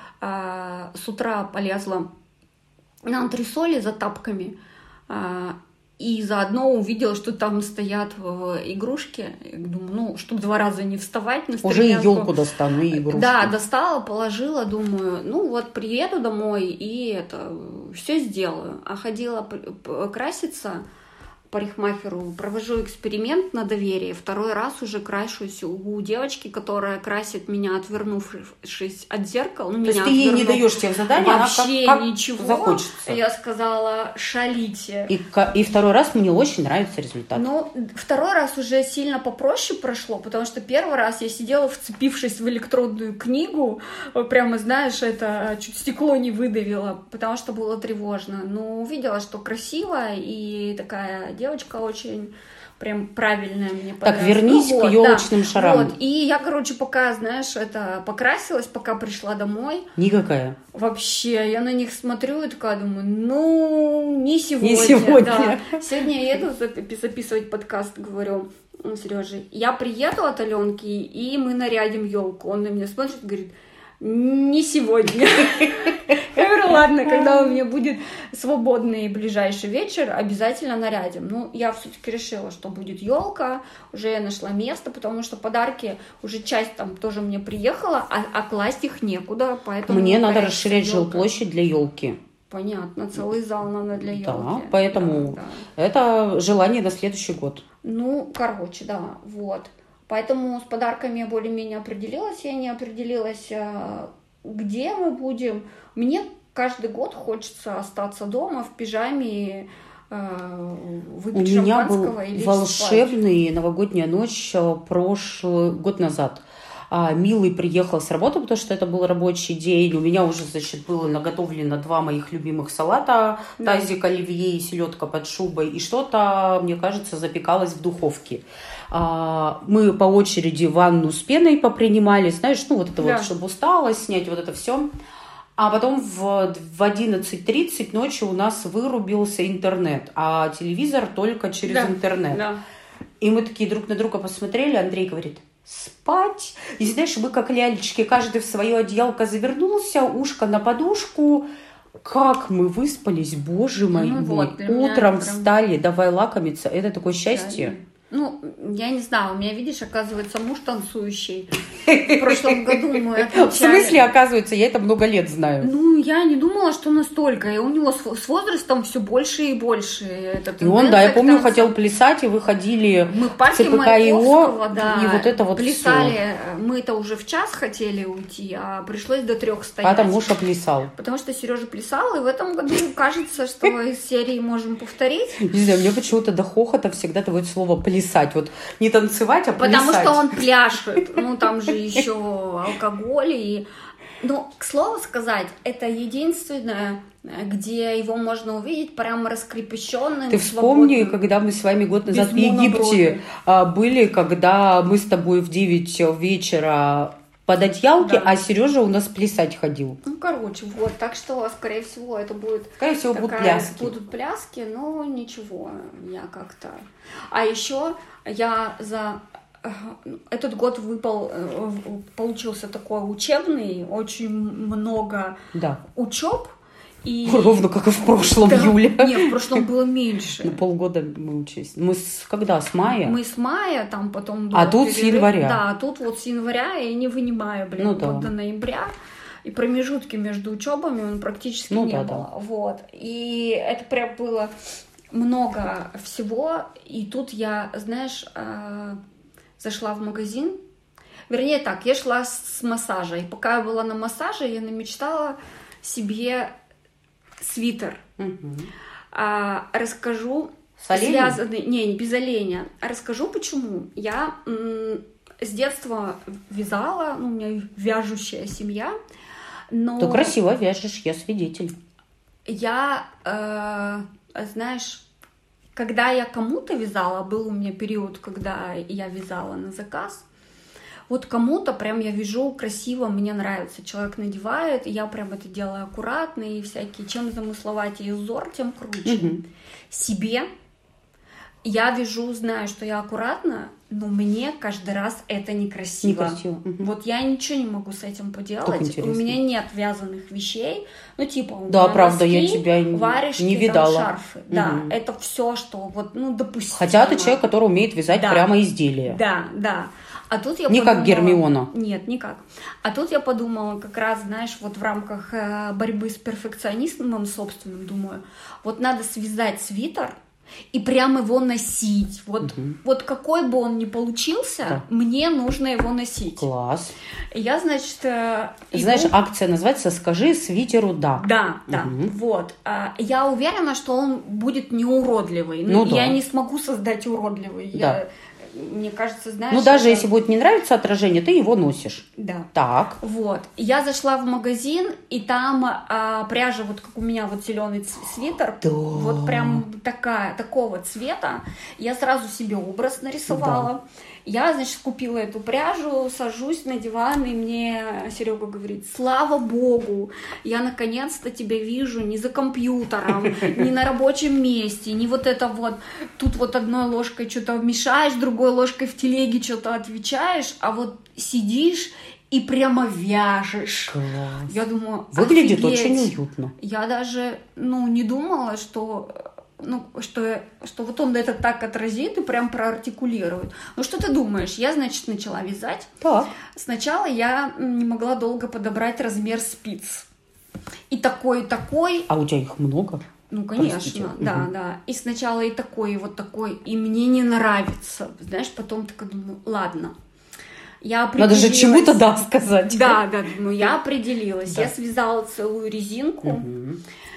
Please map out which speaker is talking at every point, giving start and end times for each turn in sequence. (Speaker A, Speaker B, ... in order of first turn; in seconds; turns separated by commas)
Speaker A: 0.2-2.1, Speaker A: 3.0-4.6, Speaker A: 5.1-12.3, Speaker B: 11.6-13.6, Speaker A: 12.9-20.9, Speaker A: 21.5-35.1, Speaker B: 29.8-33.2, Speaker B: 35.1-37.5, Speaker A: 37.3-59.9, Speaker B: 54.0-55.9, Speaker B: 60.0-60.6, Speaker A: 60.7-91.3, Speaker B: 64.6-65.8, Speaker B: 89.9-92.2, Speaker A: 92.5-95.7, Speaker B: 94.0-97.6, Speaker A: 97.8-113.2, Speaker B: 111.3-134.9, Speaker A: 123.6-123.9, Speaker A: 133.0-133.3, Speaker B: 135.6-142.4, Speaker A: 141.7-142.6, Speaker B: 143.2-151.5, Speaker B: 152.0-157.8, Speaker A: 153.9-155.5, Speaker A: 157.3-164.1, Speaker B: 161.9-165.7, Speaker A: 165.6-171.8, Speaker B: 170.6-176.2, Speaker A: 173.1-180.3, Speaker B: 179.8-180.9, Speaker A: 181.0-185.4, Speaker B: 185.4-190.4, Speaker A: 189.6-193.7, Speaker A: 194.2-201.3, Speaker B: 200.3-210.0, Speaker A: 202.1-203.2, Speaker A: 208.0-208.3, Speaker A: 210.0-227.7, Speaker B: 212.8-213.9, Speaker B: 225.5-225.8, Speaker B: 227.2-229.6, Speaker A: 228.3-230.6, Speaker B: 230.4-233.2, Speaker A: 232.8-238.9, Speaker B: 234.5-235.6, Speaker B: 237.8-238.3, Speaker A: 239.4-244.5, Speaker B: 241.7-242.3, Speaker A: 245.1-249.0, Speaker A: 249.6-250.6, Speaker A: 251.3-256.5, Speaker A: 257.4-258.0, Speaker B: 258.2-258.7, Speaker A: 259.1-268.9, Speaker B: 260.8-261.4, Speaker A: 269.7-270.4, Speaker B: 270.0-271.7, Speaker A: 272.5-275.0, Speaker A: 275.8-280.3, Speaker A: 281.1-289.4, Speaker B: 289.1-289.4, Speaker A: 289.9-290.5, Speaker A: 291.6-307.4, Speaker B: 296.0-296.9, Speaker B: 298.6-299.4, Speaker B: 301.7-304.9, Speaker B: 306.8-309.2, Speaker A: 308.1-308.5, Speaker A: 309.1-320.2, Speaker B: 310.7-311.7, Speaker A: 320.7-326.5, Speaker B: 322.4-322.8, Speaker B: 326.3-326.9, Speaker A: 327.3-329.1, Speaker B: 328.7-332.1, Speaker A: 331.2-340.1, Speaker B: 335.7-336.2, Speaker B: 337.7-338.0, Speaker B: 339.5-343.0, Speaker A: 342.2-342.5, Speaker A: 343.0-385.9, Speaker B: 348.6-349.6, Speaker B: 353.3-353.7, Speaker B: 373.9-374.6, Speaker B: 375.1-376.5, Speaker B: 386.0-386.3, Speaker A: 386.5-390.1, Speaker A: 390.9-392.1, Speaker B: 392.1-393.1, Speaker A: 393.3-399.9, Speaker B: 393.6-394.5, Speaker A: 400.8-406.5, Speaker B: 401.2-403.0, Speaker B: 406.2-406.8